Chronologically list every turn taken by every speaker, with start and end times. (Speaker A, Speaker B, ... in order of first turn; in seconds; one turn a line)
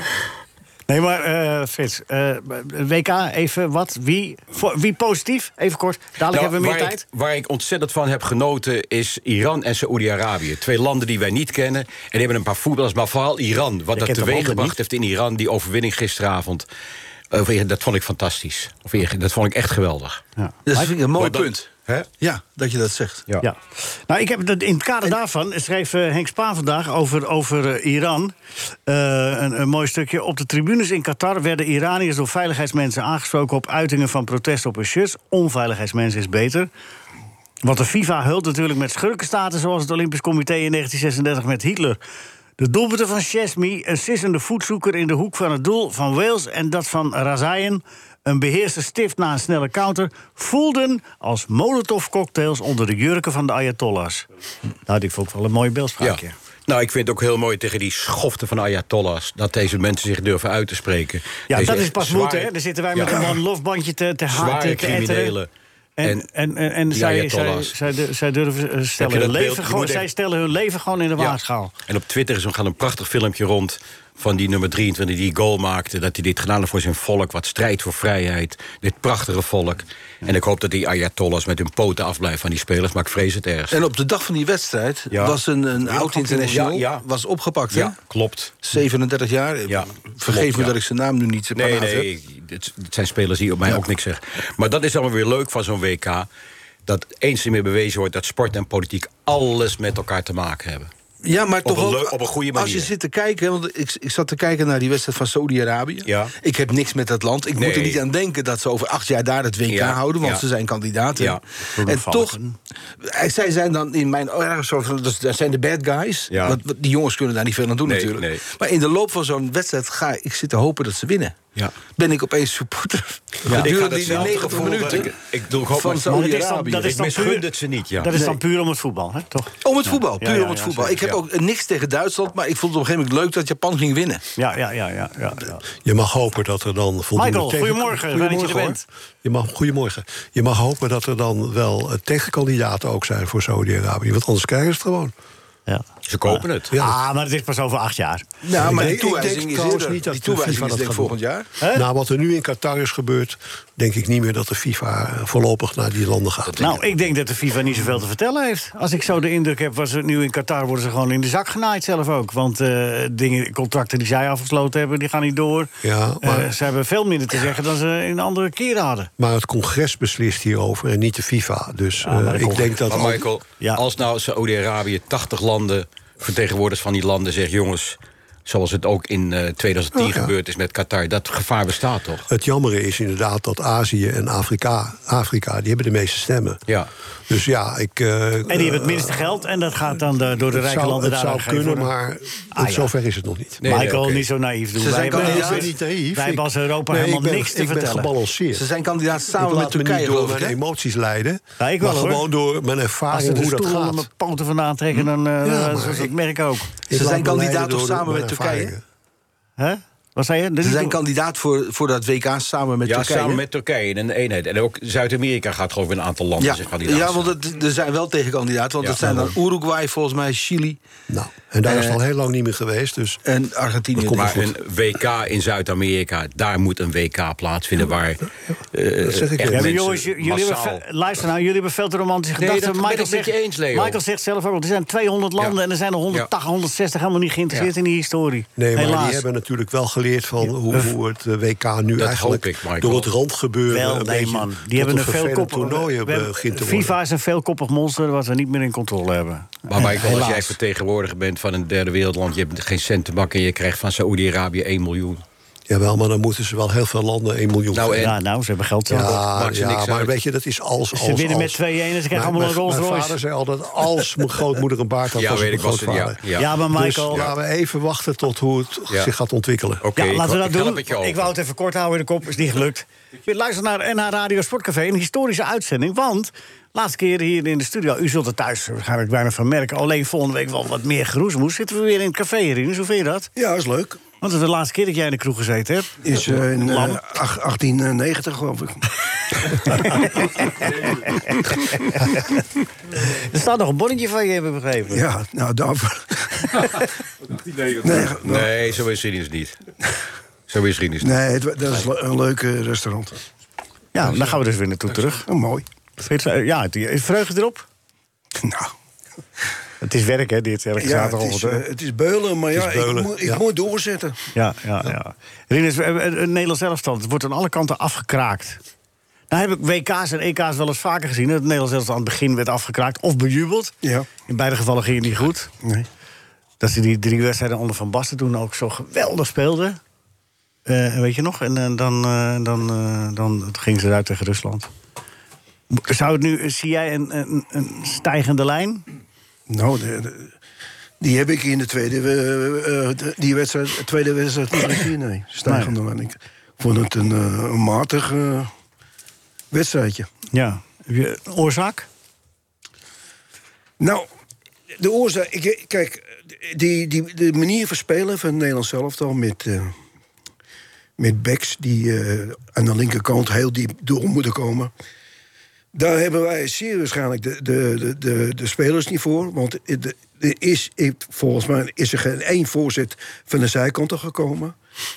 Speaker A: 0.9-7.0
Speaker B: 6.3-16.7
Speaker A: 13.9-14.8
Speaker B: 17.3-20.2
Speaker A: 20.4-20.9
Speaker C: 20.7-23.2
Speaker B: 21.2-22.1
Speaker A: 23.4-28.3
Speaker A: 28.9-36.7
Speaker A: 37.6-42.0
Speaker A: 42.6-54.2
Speaker A: 54.9-56.3
Speaker B: 56.0-63.2
Speaker A: 61.5-65.3
Speaker B: 64.3-65.5
Speaker A: 66.0-71.7
Speaker B: 66.9-67.7
Speaker B: 69.0-70.1
Speaker B: 71.2-83.8
Speaker C: 83.7-88.0
Speaker B: 85.1-87.0
Speaker B: 87.7-88.6
Speaker C: 88.6-92.1
Speaker B: 89.7-90.7
Speaker B: 91.5-96.3
Speaker B: 96.8-100.9
Speaker C: 101.2-112.4
Speaker B: 101.6-102.9
Speaker B: 106.0-106.3
Speaker B: 107.5-108.0
Speaker B: 109.7-110.4
Speaker B: 111.2-111.4
Speaker A: 111.7-112.6
Speaker C: 113.0-121.4
Speaker B: 116.3-116.6
Speaker B: 117.8-118.4
Speaker C: 121.9-127.0
Speaker B: 123.5-126.2
Speaker A: 126.1-127.5
Speaker B: 126.8-128.1
Speaker A: 128.0-130.9
Speaker C: 128.1-128.4
Speaker C: 129.6-134.2
Speaker A: 134.4-135.6
Speaker D: 135.8-145.1
Speaker A: 137.2-138.8
Speaker A: 145.7-148.3
Speaker B: 146.1-146.7
Speaker D: 146.7-146.9
Speaker C: 148.4-151.5
Speaker D: 148.5-151.2
Speaker A: 151.6-151.8
Speaker D: 151.7-156.6
Speaker B: 156.4-156.8
Speaker A: 156.6-169.1
Speaker D: 165.8-166.6
Speaker D: 169.2-173.3
Speaker A: 172.0-173.0
Speaker B: 172.9-182.2
Speaker D: 179.9-180.3
Speaker D: 182.3-186.6
Speaker D: 187.3-189.3
Speaker A: 188.5-191.9
Speaker D: 190.5-193.6
Speaker A: 192.5-192.9
Speaker B: 193.6-194.3
Speaker A: 193.6-198.1
Speaker C: 194.8-195.7
Speaker D: 195.1-198.7
Speaker C: 198.5-200.6
Speaker D: 199.3-204.1
Speaker A: 201.6-202.2
Speaker A: 203.1-206.9
Speaker D: 205.4-206.1
Speaker D: 206.9-208.8
Speaker C: 206.9-208.7
Speaker A: 209.6-211.0
Speaker C: 210.6-213.4
Speaker B: 212.8-217.3
Speaker C: 216.4-220.8
Speaker B: 218.8-219.3
Speaker D: 221.1-223.2
Speaker C: 221.7-222.0
Speaker C: 223.2-224.5
Speaker D: 223.9-224.5
Speaker B: 224.1-230.8
Speaker D: 228.5-229.7
Speaker A: 229.5-239.2
Speaker B: 232.4-234.0
Speaker D: 238.6-246.9
Speaker B: 242.0-243.1
Speaker A: 243.7-250.6
Speaker B: 249.7-255.2
Speaker D: 255.7-258.1
Speaker B: 257.7-258.1
Speaker A: 258.0-259.2
Speaker D: 258.9-269.8
Speaker B: 259.3-260.2
Speaker A: 260.9-263.2
Speaker B: 265.1-266.5
Speaker A: 266.4-267.2
Speaker B: 269.8-271.3
Speaker A: 269.9-283.3
Speaker E: 283.4-284.0
Speaker A: 284.2-287.0
Speaker E: 286.0-288.8
Speaker E: 289.4-290.0
Speaker A: 289.6-292.4
Speaker A: 292.9-295.0
Speaker E: 294.9-296.9
Speaker E: 297.7-298.5
Speaker B: 298.2-299.6
Speaker B: 300.5-301.2
Speaker E: 301.0-303.1
Speaker A: 303.9-305.3
Speaker E: 305.3-305.6
Speaker A: 306.0-307.6
Speaker E: 308.4-308.7
Speaker A: 309.8-311.6
Speaker E: 310.8-314.2
Speaker D: 312.5-313.4
Speaker A: 314.3-318.6
Speaker A: 319.3-323.8
Speaker E: 323.8-324.1
Speaker A: 324.3-325.5
Speaker A: 326.6-329.8
Speaker A: 330.6-334.7
Speaker A: 335.7-338.8
Speaker E: 339.5-340.3
Speaker E: 341.0-348.5
Speaker A: 345.4-345.7
Speaker E: 349.5-350.1
Speaker A: 350.3-351.9
Speaker E: 353.8-354.1
Speaker E: 354.8-359.7
Speaker E: 361.0-364.7
Speaker E: 365.7-374.6